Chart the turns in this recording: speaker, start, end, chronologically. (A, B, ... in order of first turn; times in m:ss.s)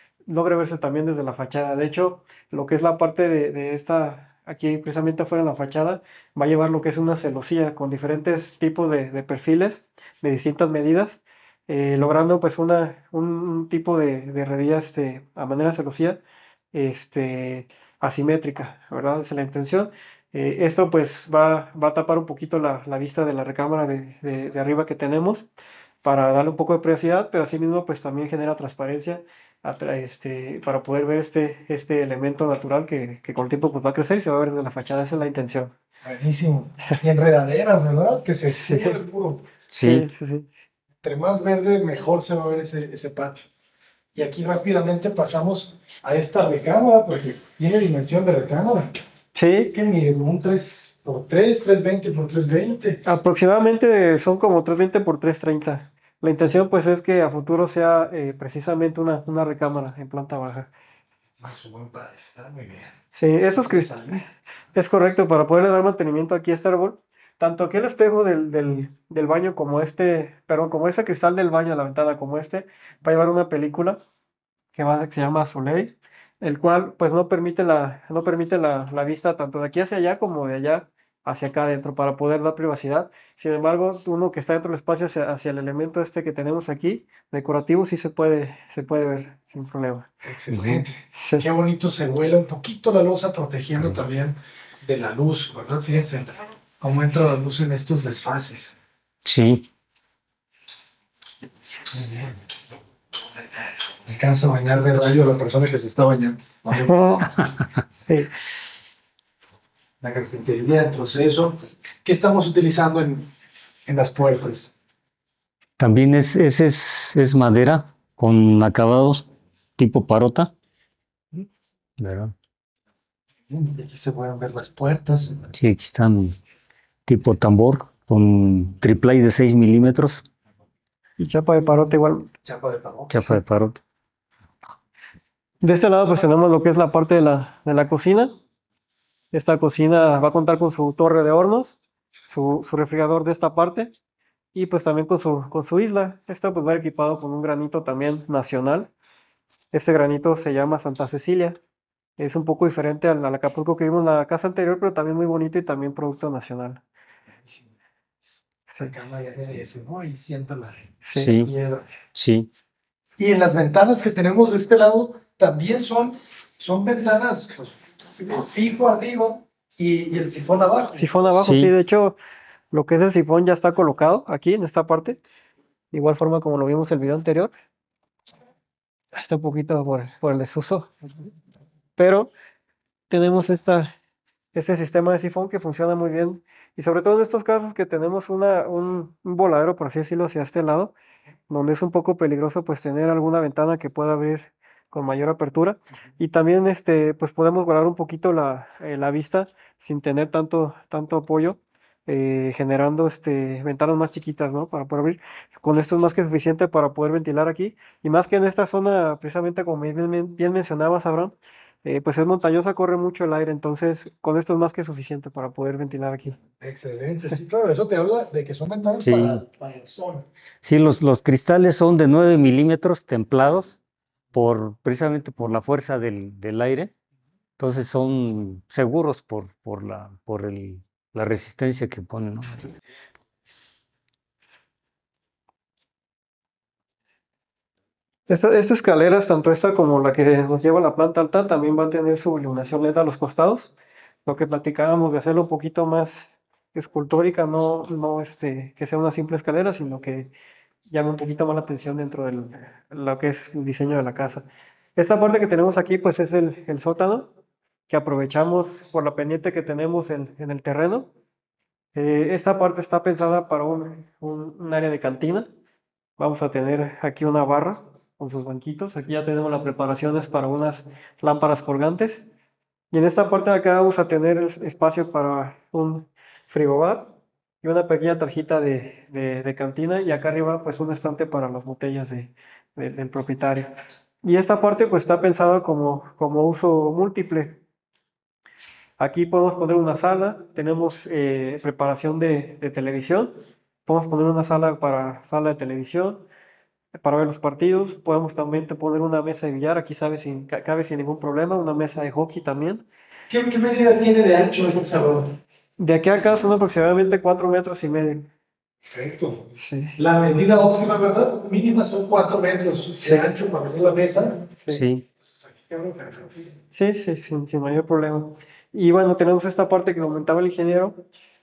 0:00.3-0:16.2 A
0:16.7-0:25.5 A
0:26.0-0:35.7 A
0:36.0-0:39.5 B
0:38.5-0:39.0 A
0:39.7-0:40.0 C
0:39.8-0:40.5 A
0:41.0-0:43.5 B
0:44.1-0:48.9 B
0:49.3-0:49.8 A
0:49.7-0:53.0 B
0:53.0-1:00.7 A
1:01.4-1:03.0 B
1:03.1-1:14.0 A
1:03.6-1:04.2 B
1:14.7-1:30.1 A
1:30.2-1:38.8 B
1:30.5-1:30.8 C
1:31.1-1:31.4 A
1:39.2-1:39.6 C
1:41.9-1:42.4 B
1:44.0-1:47.0 B
1:46.7-1:47.4 A
1:50.0-1:53.3 B
1:53.8-1:54.7 B
1:55.8-1:59.2 C
1:59.8-2:00.5 C
2:02.0-2:02.3 C
2:03.5-2:05.5 B
2:05.5-2:06.4 C
2:07.0-2:10.2 C
2:11.2-2:12.3 A
2:12.4-2:13.3 B
2:13.1-2:13.8 C
2:15.6-2:18.3 A
2:19.3-2:21.8 A
2:22.3-2:23.9 A
2:24.5-2:28.9 A
2:29.7-2:31.6 A
2:32.2-2:36.8 A
2:38.8-2:41.0 B
2:41.0-2:41.8 A
2:41.1-2:41.5 C
2:42.1-2:42.5 C
2:43.2-2:51.1 B
2:50.9-2:52.2 A
2:51.4-2:51.7 C
2:52.7-2:55.2 A
2:55.9-2:57.5 A
2:59.1-3:00.9 A
3:02.0-3:02.3 A
3:03.1-3:03.9 A
3:04.5-3:10.9 A
3:11.5-3:36.4 A
3:36.6-3:40.3 B
3:39.0-3:39.4 C
3:40.6-3:43.7 C
3:44.3-3:46.9 C
3:47.6-3:52.7 C
3:58.3-4:03.7 A
4:04.2-4:10.3 A
4:10.9-4:17.3 A
4:17.9-4:21.1 A
4:21.9-4:25.5 A
4:26.2-4:32.2 A
4:32.9-4:47.6 A
4:49.0-4:53.3 A
4:53.8-4:56.2 A
4:57.0-5:02.8 A
5:03.3-5:05.3 B
5:05.8-5:08.3 A
5:08.9-5:14.5 B
5:09.6-5:10.0 A
5:13.0-5:13.3 A
5:14.5-5:14.8 A
5:14.7-5:15.0 C
5:15.2-5:16.6 B
5:16.7-5:21.0 A